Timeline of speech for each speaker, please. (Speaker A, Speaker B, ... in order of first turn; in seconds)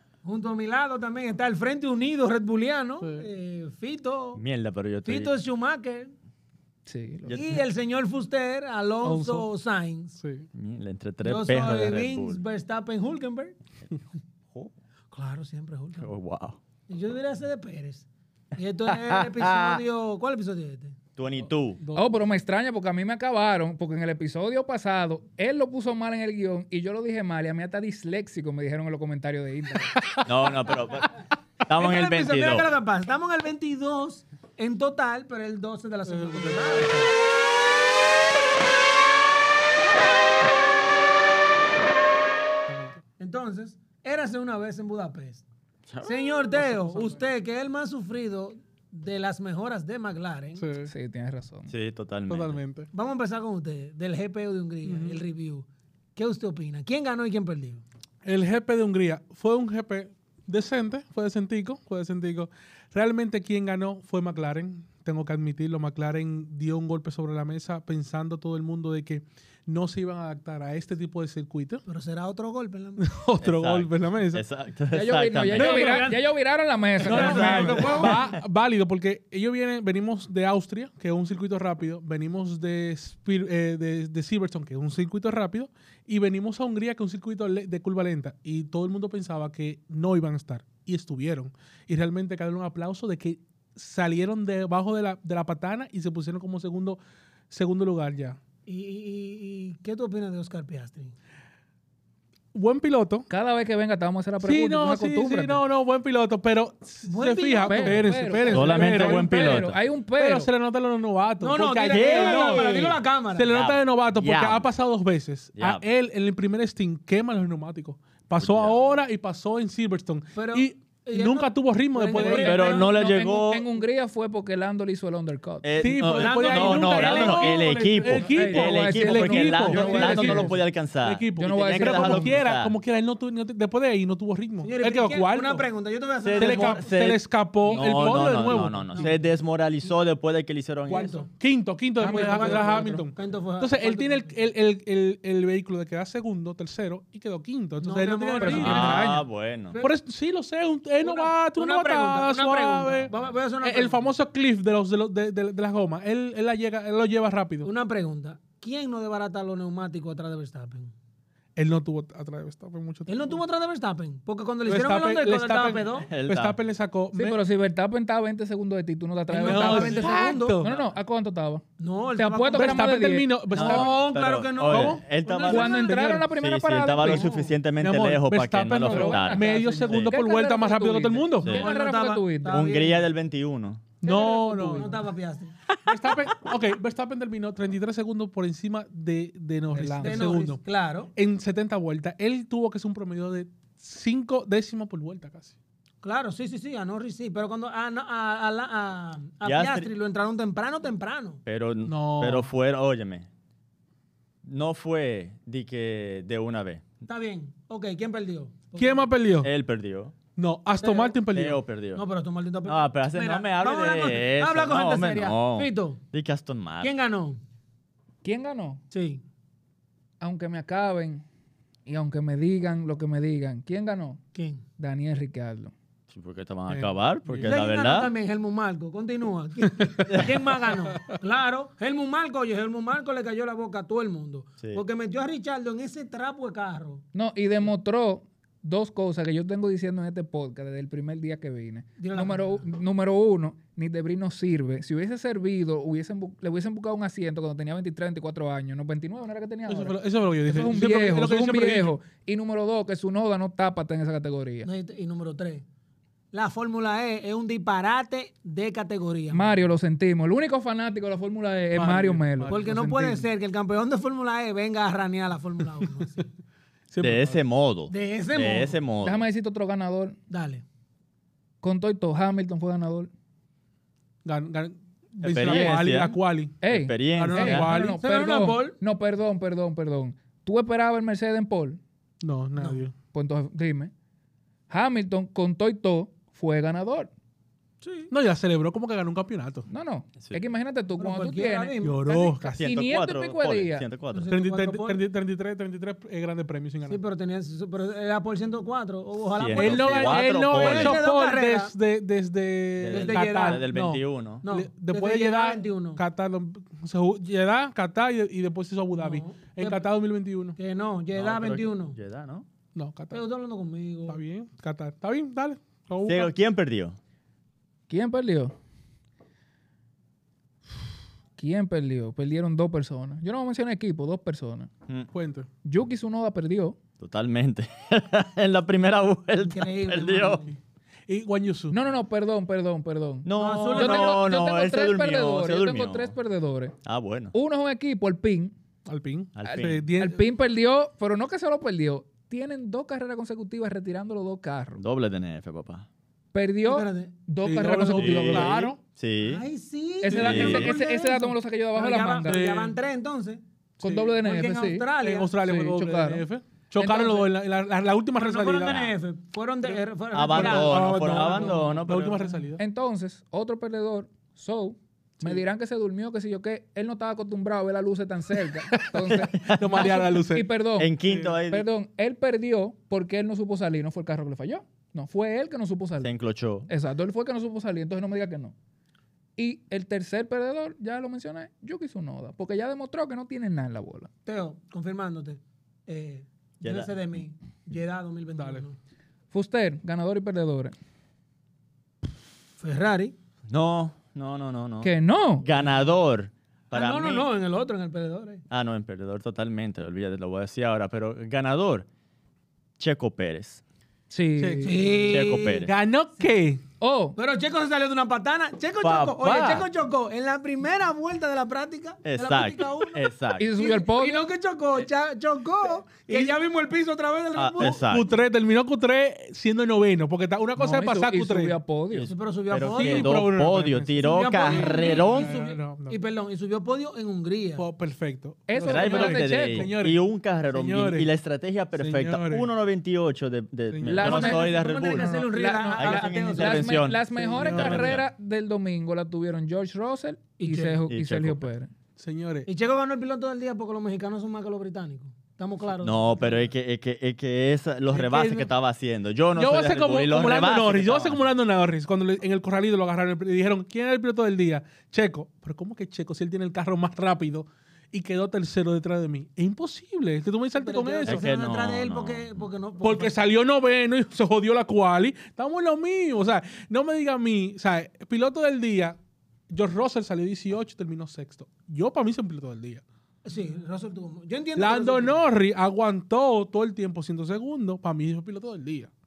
Speaker A: 0.2-4.4, 5.0-6.1, 7.3-10.2, 11.2-13.6, 15.1-16.1, 16.9-20.9, 31.8-37.1, 43.2-45.4, 46.0-50.6, 52.9-57.8, 71.9-73.0, 75.5-76.2, 77.0-78.2, 98.7-101.1, 107.1-108.8, 111.4-113.5, 120.4-122.9, 126.0-128.3, 134.6-136.8, 140.9-141.3, 142.0-144.4, 147.8-149.0, 149.7-150.0, 151.0-154.1, 157.6-160.9, 163.1-166.1, 169.3-170.7, 171.8-173.0, 173.5-176.2, 177.0-177.6, 181.6-183.0, 184.1-185.6, 190.0-191.1, 196.0-201.4, 207.1-209.1, 210.8-211.2, 211.9-216.0, 216.8-217.4, 218.9-219.2, 224.3-224.6, 227.4-237.0, 242.0-242.7, 254.6-255.6, 256.3-259.6, 262.5-266.3, 267.9-268.8, 270.3-270.6, 277.7-278.8, 282.6-282.8, 287.8-288.1, 291.0-292.4, 294.1-295.0, 296.9-301.7, 302.9-303.7, 304.4-306.0, 309.0-309.8, 310.6-312.0, 313.1-314.2, 329.4-330.6, 333.3-334.2, 346.6-347.1, 349.2-353.4, 354.2-355.3, 358.2-361.5, 384.3-388.8, 392.6-393.1, 396.7-398.4, 404.6-405.6, 407.2-417.9, 422.1-423.3, 424.0-427.6, 434.1-436.7, 440.4-440.8, 442.5-446.5, 447.9-448.5, 460.6-463.2, 473.2-475.2
Speaker B: 3.0-3.3, 9.0-9.5, 10.2-10.5, 36.1-37.1, 42.7-43.0, 46.5-47.3, 50.6-50.9, 52.3-52.9, 54.8-55.2, 58.2-71.8, 73.0-74.4, 75.6-76.1, 77.0-98.4, 102.5-103.3, 104.4-109.6, 110.2-122.7, 125.8-135.7, 136.4-139.2, 140.9-149.2, 149.8-153.1, 153.6-157.7, 161.6-163.4, 164.7-167.4, 169.4-170.8, 172.5-175.0, 175.8-176.2, 177.8-181.6, 184.0-185.0, 185.9-190.6, 191.2-195.6, 201.8-202.5, 208.8-209.5, 210.4-211.6, 226.7-227.6, 249.7-251.9, 261.8-262.6, 266.9-267.4, 274.2-276.6, 277.1-278.0, 282.2-282.9, 288.1-289.7, 291.8-292.6, 294.3-297.0, 299.6-310.6, 312.8-313.2, 314.1-316.3, 325.1-325.5, 331.1-331.8, 338.9-340.2, 347.4-348.8, 350.1-350.7, 352.2-352.8, 353.8-354.2, 355.0-358.9, 359.7-362.6, 368.8-370.5, 371.1-371.4, 388.4-388.6, 404.4-404.8, 405.6-406.6, 416.1-416.3, 417.6-421.5, 422.6-426.0, 427.6-431.1, 431.8-432.5, 433.7-434.4, 437.3-438.0, 442.0-442.5, 449.4-461.2, 462.8-469.0, 469.5-472.8, 474.6-478.9
Speaker C: 4.3-5.3, 7.2-7.6, 10.5-12.4, 16.0-16.6, 18.9-19.8, 21.2-21.8, 30.2-32.7, 45.9-46.4, 51.7-52.6, 73.4-76.0, 108.5-109.8, 111.9-113.0, 113.5-114.7, 115.6-115.8, 118.4-119.0, 122.4-123.7, 125.6-132.8, 136.2-141.1, 148.5-149.8, 166.1-166.6, 173.5-180.2, 182.5-183.9, 199.4-199.9, 201.5-203.3, 204.4-206.8, 209.4-210.1, 211.3-212.0, 212.7-216.9, 226.1-228.1, 230.1-230.3, 267.0-269.2, 275.2-277.7, 292.6-294.3, 299.4-301.1, 302.8-304.4, 311.2-312.5, 316.0-317.0, 327.0-330.4, 333.2-336.1, 336.8-337.3, 339.4-339.8, 344.8-345.9, 347.9-349.4, 350.1-350.8, 360.1-362.4, 369.1-370.0, 370.8-371.7, 376.0-376.7, 386.6-386.9, 393.5-397.3, 398.5-401.9, 402.8-403.6, 405.0-405.7, 408.8-409.7, 412.0-413.5, 417.4-418.1, 421.9-425.3, 428.6-435.1, 435.8-438.0, 440.9-441.5, 445.8-451.2, 461.0-462.4
Speaker D: 6.9-7.5, 21.9-30.0, 50.9-51.7, 74.9-78.1, 103.3-105.6, 107.7-110.5, 122.1-125.7, 128.2-130.6, 131.4-132.3, 137.7-138.4, 142.0-143.1, 148.4-149.2, 167.1-171.6, 172.2-173.4, 175.5-177.3, 178.8-182.7, 184.0-185.0, 189.7-190.3, 218.2-218.8, 220.2-221.2, 221.9-224.2, 224.8-225.7, 237.1-254.7, 259.3-263.2, 269.0-270.2, 271.6-273.1, 275.4-275.8, 276.6-281.8, 283.1-283.9, 284.7-287.1, 289.7-291.8, 292.4-293.9, 317.9-318.5, 321.4-324.7, 325.6-326.8, 331.7-336.8, 337.3-338.5, 339.4-344.8, 346.3-348.8, 350.0-352.4, 353.8-354.9, 355.4-356.2, 356.8-357.3, 362.6-370.9, 371.5-376.1, 376.7-378.5, 379.4-384.1, 389.3-390.8, 394.8-395.4, 404.1-405.0, 406.8-407.2, 413.4-414.2, 420.6-422.1, 428.5-429.7, 433.9-441.7